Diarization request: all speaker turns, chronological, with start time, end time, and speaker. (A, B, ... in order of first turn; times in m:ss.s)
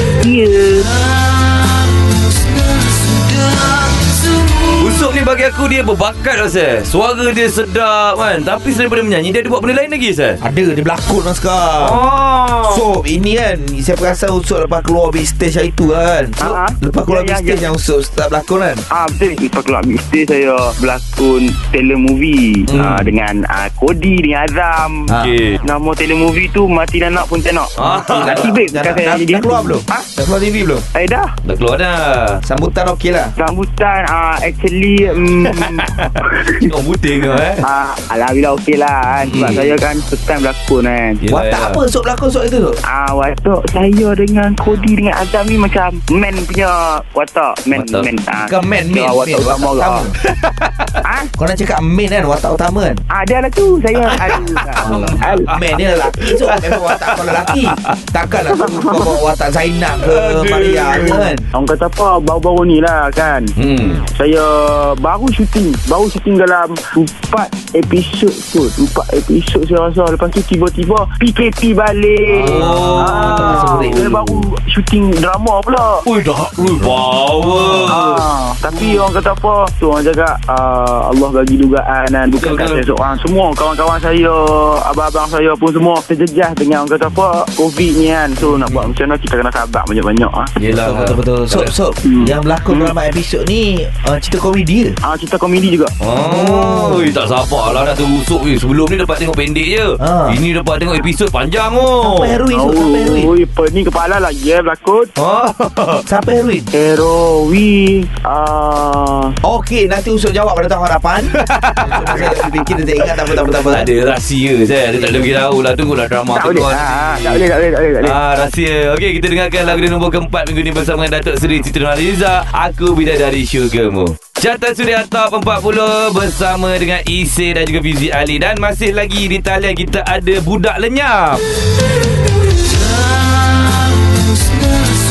0:00.2-0:00.9 A
0:04.8-0:10.4 B
0:10.4-0:12.0 C
0:11.8-0:12.8 B
0:12.6-0:18.8 C
0:16.4-0:17.6 A
0:18.9-0:25.1 A
0:22.7-0:23.0 B
0:22.7-0:23.0 C
0:25.1-0:25.3 C
0:25.1-0:25.6 B
0:25.6-0:30.1 A
0:27.8-0:28.5 B
0:27.8-0:30.8 C
0:30.9-0:31.3 A
0:31.4-0:32.4 B
0:32.4-0:33.3 C
0:33.4-0:36.7 A
0:35.4-0:37.6 B
0:37.6-0:41.2 A
0:39.2-0:39.7 B
0:39.4-0:39.6 C
0:41.2-0:41.8 B
0:41.3-0:42.8 C
0:42.9-0:50.1 A
0:47.7-0:48.1 B
0:48.4-0:50.1 C
0:50.2-0:50.9 B
0:51.0-0:51.3 A
0:51.4-0:53.0 C
0:53.1-0:55.5 A
0:54.1-1:01.4 C
0:54.1-0:58.0 B
0:58.4-0:59.2 A
1:00.0-1:01.3 B
1:01.5-1:03.5 A
1:03.6-1:04.0 B
1:04.1-1:16.0 A
1:12.3-1:14.1 B
1:12.4-1:14.4 C
1:16.0-1:19.0 B
1:17.5-1:18.0 C
1:17.9-1:30.5 A
1:22.3-1:22.8 B
1:28.4-1:28.9 B
1:30.6-1:31.7 B
1:30.7-1:35.0 C
1:32.0-1:32.9 A
1:35.0-1:35.9 A
1:36.0-1:42.4 B
1:36.2-1:37.1 C
1:40.0-1:40.4 C
1:42.0-1:43.3 C
1:42.5-1:45.1 A
1:45.2-1:46.0 B
1:46.0-1:46.7 C
1:46.7-1:49.3 A
1:49.4-1:53.9 C
1:51.4-1:52.4 B
1:53.4-1:57.4 B
1:54.9-1:55.3 A
1:56.3-1:58.1 A
1:58.0-2:11.4 B